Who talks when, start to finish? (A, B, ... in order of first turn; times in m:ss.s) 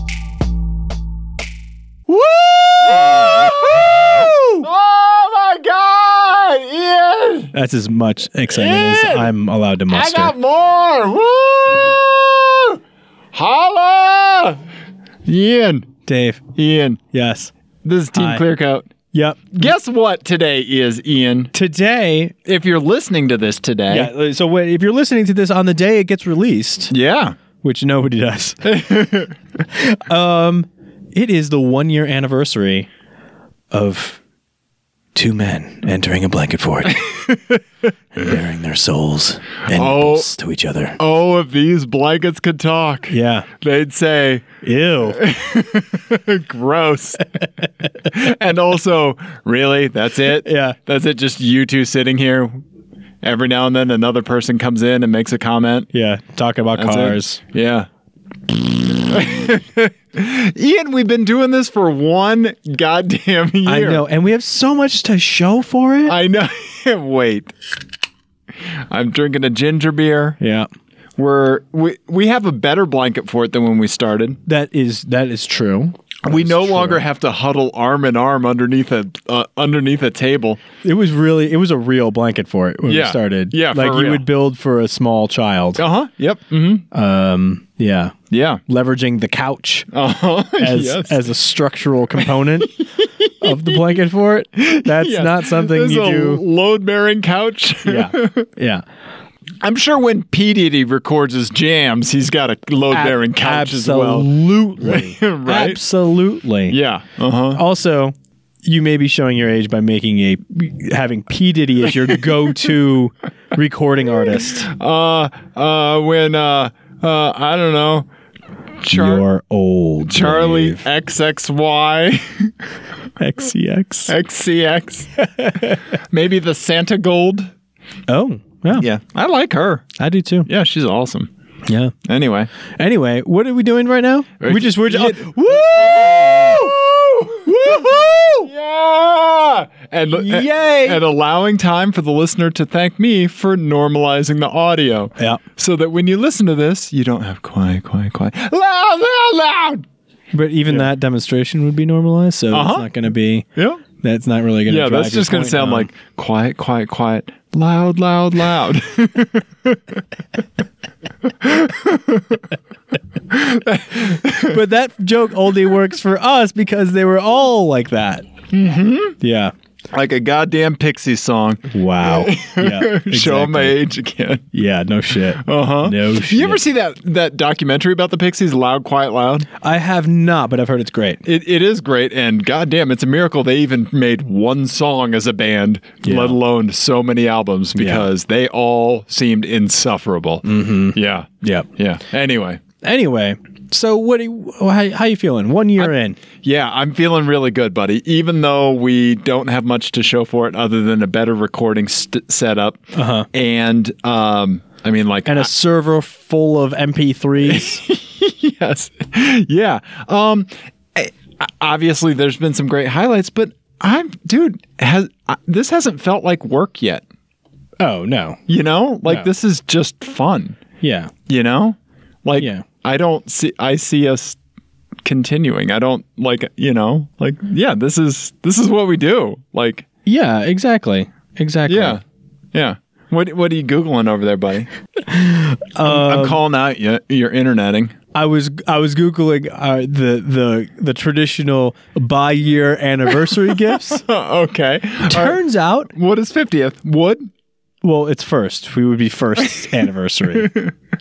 0:02.1-0:07.5 A
0:02.2-0:04.7 B
0:07.5-0:10.3 B
0:08.5-0:09.3 A
0:09.9-0:12.8 A
0:13.3-0:14.6 A
0:15.3-0:15.9 A
0:16.0-0:16.4 B
0:16.6-0:17.0 A
0:17.1-0:17.5 B
0:17.8-0:18.9 A
0:18.1-0:18.4 B
0:19.1-0:19.6 B
0:19.5-0:21.5 A
0:21.5-0:22.3 B
0:22.4-0:24.1 A
0:23.9-0:26.9 B
0:26.9-0:27.4 A
0:27.6-0:28.6 B
0:28.6-0:29.3 A
0:29.7-0:32.9 B
0:33.7-0:34.2 B
0:35.2-0:37.1 B
0:36.9-0:37.6 A
0:38.1-0:41.0 B
0:39.7-0:40.3 A
0:41.0-0:44.5 A
0:43.1-0:43.5 B
0:44.6-0:45.2 B
0:45.0-0:47.4 A
0:48.0-0:52.6 A
0:50.4-0:50.8 B
0:53.2-0:55.9 A
0:55.9-0:57.4 B
0:56.7-0:57.9 A
0:58.5-1:04.0 A
1:03.7-1:06.2 B
1:06.1-1:07.5 A
1:08.7-1:10.4 A
1:10.4-1:10.7 B
1:11.2-1:14.4 A
1:14.4-1:17.0 B
1:16.2-1:20.6 A
1:20.8-1:25.8 B
1:22.9-1:24.2 A
1:25.8-1:26.9 A
1:26.9-1:28.1 B
1:28.3-1:28.6 A
1:28.7-1:29.9 B
1:29.9-1:31.2 A
1:30.6-1:32.8 B
1:32.2-1:33.8 A
1:33.4-1:36.4 B
1:34.6-1:38.5 A
1:37.9-1:38.8 B
1:39.6-1:45.8 A
1:42.9-1:46.8 B
1:46.7-1:47.6 A
1:47.5-1:48.1 B
1:48.6-1:54.7 B
1:54.5-1:58.1 A
1:58.8-1:59.2 A
1:58.9-2:00.8 B
2:00.1-2:02.5 A
2:03.2-2:04.2 B
2:04.1-2:05.1 A
2:05.2-2:05.8 B
2:05.9-2:07.5 A
2:08.1-2:08.9 B
2:08.8-2:09.8 A
2:10.0-2:10.5 B
2:10.5-2:11.3 A
2:11.7-2:11.9 B
2:12.0-2:12.5 A
2:12.8-2:16.6 B
2:14.4-2:29.8 A
2:17.5-2:17.8 B
2:20.2-2:21.0 B
2:30.3-2:33.5 B
2:32.5-2:32.9 A
2:33.5-2:33.8 A
2:34.0-2:35.9 B
2:34.7-2:40.0 A
2:41.2-2:42.5 A
2:43.3-2:44.6 A
2:44.4-2:48.2 B
2:48.5-2:49.2 A
2:49.2-2:49.5 B
2:49.9-2:54.5 A
2:51.7-2:53.8 B
2:54.5-2:56.6 B
2:55.4-2:59.5 A
2:59.6-3:01.2 B
3:01.2-3:12.6 A
3:06.0-3:06.4 B
3:07.8-3:08.1 B
3:10.4-3:11.7 B
3:12.8-3:16.2 B
3:15.8-3:25.5 A
3:22.9-3:23.3 B
3:25.2-3:27.8 B
3:27.4-3:37.0 A
3:37.8-3:38.4 B
3:38.5-3:40.6 A
3:40.8-3:41.1 B
3:41.3-3:44.4 A
3:42.4-3:42.6 B
3:45.0-3:49.8 A
3:50.1-3:52.0 B
3:51.7-3:52.0 A
3:52.5-3:54.7 A
3:55.1-3:56.4 B
3:55.8-3:58.0 A
3:58.1-4:04.0 B
4:03.6-4:05.4 A
4:05.0-4:05.9 B
4:05.9-4:07.3 A
4:07.8-4:10.5 B
4:10.3-4:10.7 A